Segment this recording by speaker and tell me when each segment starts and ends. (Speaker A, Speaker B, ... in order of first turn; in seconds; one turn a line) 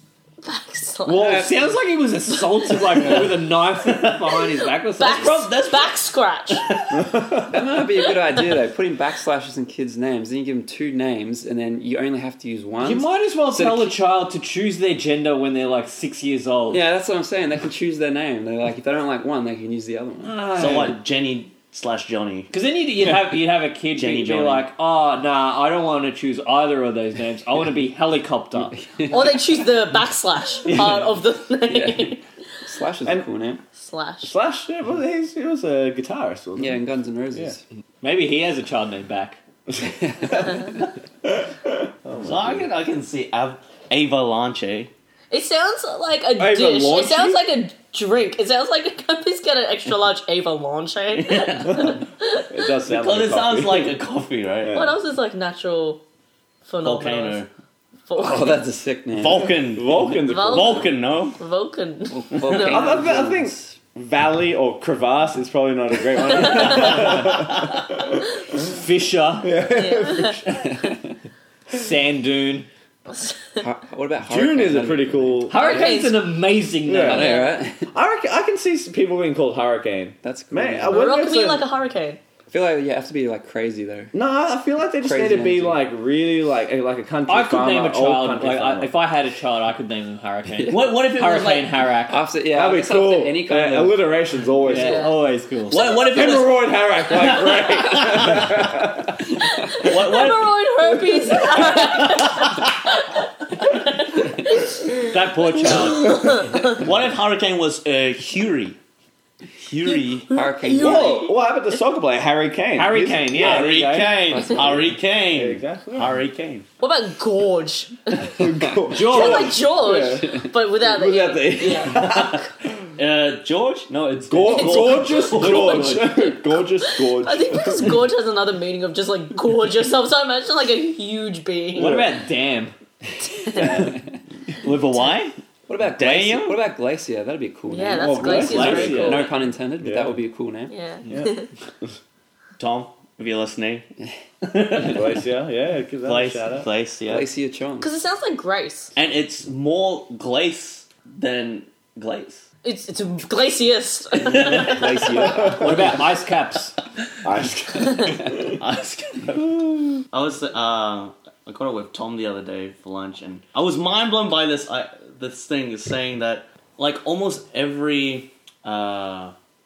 Speaker A: 0.4-1.5
Speaker B: 1.1-5.4
Speaker C: 1.1-1.6
Speaker A: 2.3-3.2
Speaker D: 3.8-4.3
Speaker A: 4.5-6.7
Speaker D: 5.1-6.0
Speaker D: 6.5-7.1
Speaker E: 6.9-7.5
Speaker C: 7.5-13.9
Speaker B: 12.8-16.8
Speaker C: 16.7-20.6
Speaker B: 20.2-21.0
Speaker D: 20.6-22.5
Speaker B: 22.5-28.9
Speaker D: 23.9-24.6
Speaker C: 29.0-29.3
Speaker A: 29.1-32.2
Speaker C: 31.7-33.6
Speaker A: 33.8-34.4
Speaker E: 34.3-36.8
Speaker C: 36.6-37.6
Speaker B: 38.0-39.4
Speaker C: 40.1-40.6
Speaker E: 40.2-40.5
Speaker E: 41.2-42.7
Speaker D: 42.2-44.9
Speaker A: 45.3-52.5
Speaker E: 46.4-47.4
Speaker D: 51.2-52.0
Speaker E: 52.5-54.0
Speaker D: 52.9-54.8
Speaker E: 54.6-55.0
Speaker A: 54.7-56.0
Speaker A: 56.6-57.5
Speaker D: 56.8-57.5
Speaker A: 58.1-58.6
Speaker C: 58.1-59.5
Speaker D: 59.2-61.4
Speaker E: 59.7-60.9
Speaker A: 60.2-62.9
Speaker C: 62.1-63.7
Speaker D: 62.5-62.8
Speaker E: 62.6-68.6
Speaker A: 66.5-67.0
Speaker D: 66.9-67.8
Speaker B: 68.5-69.5
Speaker E: 69.4-70.7
Speaker A: 69.7-70.4
Speaker C: 70.5-71.2
Speaker B: 71.7-72.7
Speaker C: 73.6-75.9
Speaker E: 74.3-75.6
Speaker B: 75.5-77.4
Speaker A: 75.5-76.2
Speaker E: 76.8-81.6
Speaker C: 77.0-77.9
Speaker A: 77.1-77.6
Speaker C: 80.2-81.0
Speaker A: 80.9-82.2
Speaker C: 82.5-84.1
Speaker E: 84.1-88.9
Speaker C: 85.0-85.8
Speaker B: 87.3-92.3
Speaker D: 90.7-91.7
Speaker C: 92.1-94.0
Speaker E: 92.5-95.1
Speaker B: 94.6-95.9
Speaker A: 94.7-96.4
Speaker D: 95.7-98.4
Speaker E: 96.1-99.3
Speaker A: 99.4-106.8
Speaker D: 99.7-100.5
Speaker D: 101.4-102.7
Speaker B: 105.0-106.3
Speaker D: 106.5-108.8
Speaker D: 109.6-110.3
Speaker A: 110.3-111.4
Speaker C: 110.3-111.2
Speaker E: 110.8-113.7
Speaker B: 112.8-114.5
Speaker D: 113.3-116.7
Speaker C: 114.3-114.9
Speaker E: 115.3-116.2
Speaker A: 116.8-122.4
Speaker E: 118.3-122.4
Speaker B: 118.9-119.6
Speaker D: 121.9-126.1
Speaker E: 124.3-128.0
Speaker A: 124.5-132.0
Speaker B: 131.8-132.8
Speaker E: 131.8-132.1
Speaker A: 133.3-133.9
Speaker E: 133.6-133.9
Speaker C: 133.6-133.9
Speaker D: 134.6-135.4
Speaker C: 135.7-140.7
Speaker D: 135.9-136.6
Speaker A: 137.7-139.3
Speaker E: 137.9-139.3
Speaker D: 138.4-139.0
Speaker E: 139.8-140.2
Speaker A: 140.7-141.5
Speaker E: 141.1-141.3
Speaker D: 142.6-143.9
Speaker D: 144.4-145.2
Speaker E: 144.9-146.7
Speaker D: 146.0-147.3
Speaker C: 147.1-147.9
Speaker A: 147.8-148.9
Speaker D: 148.9-152.4
Speaker A: 152.6-154.9
Speaker D: 154.3-154.8
Speaker C: 154.3-156.0
Speaker E: 155.1-155.9
Speaker B: 155.4-156.8
Speaker E: 157.2-158.6
Speaker D: 158.5-169.3
Speaker E: 159.4-160.0